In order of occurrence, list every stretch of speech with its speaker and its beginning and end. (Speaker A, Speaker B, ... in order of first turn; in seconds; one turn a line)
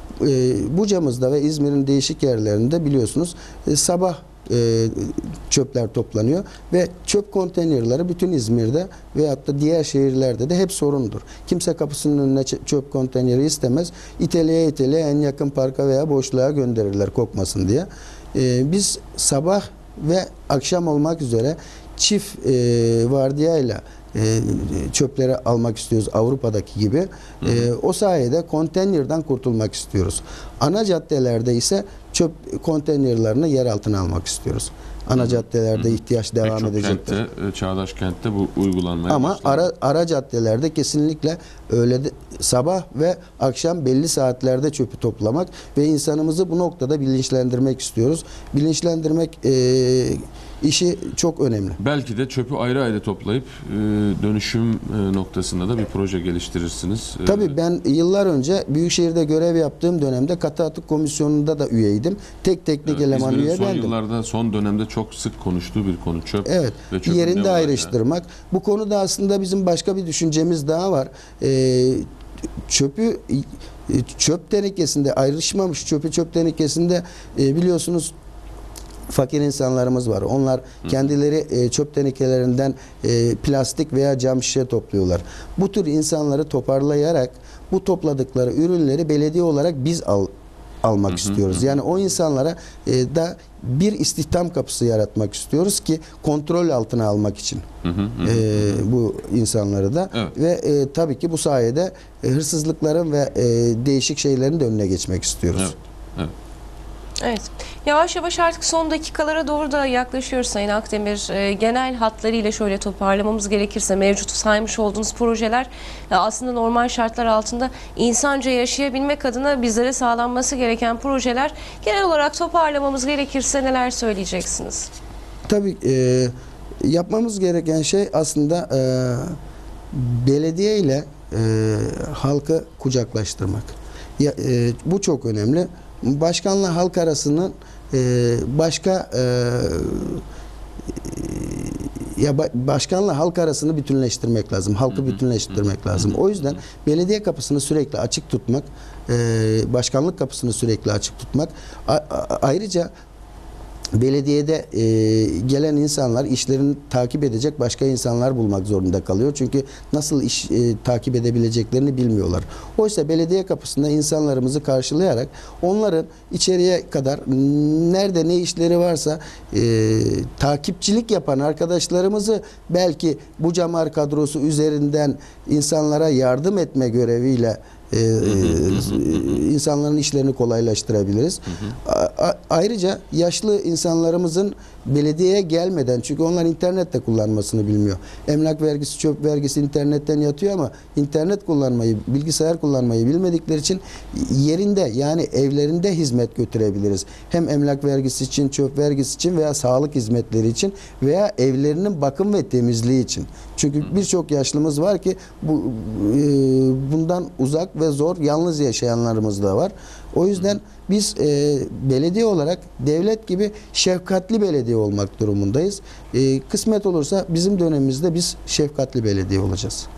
Speaker A: 0.2-37.2
Speaker B: 27.4-27.7
Speaker B: 35.2-39.7
Speaker A: 39.1-51.8
Speaker B: 51.8-57.5
Speaker A: 57.3-63.9
Speaker B: 62.9-67.9
Speaker A: 66.5-72.1
Speaker A: 72.7-78.1
Speaker A: 79.1-90.3
Speaker A: 90.8-97.7
Speaker B: 91.1-91.7
Speaker B: 97.8-98.8
Speaker A: 98.2-105.7
Speaker B: 105.5-106.3
Speaker C: 107.2-124.9
Speaker A: 125.5-126.3
Speaker A: 126.8-129.4
Speaker A: 129.9-140.2
Speaker A: 140.9-152.9
Speaker A: 153.9-219.9
Speaker B: 178.2-179.2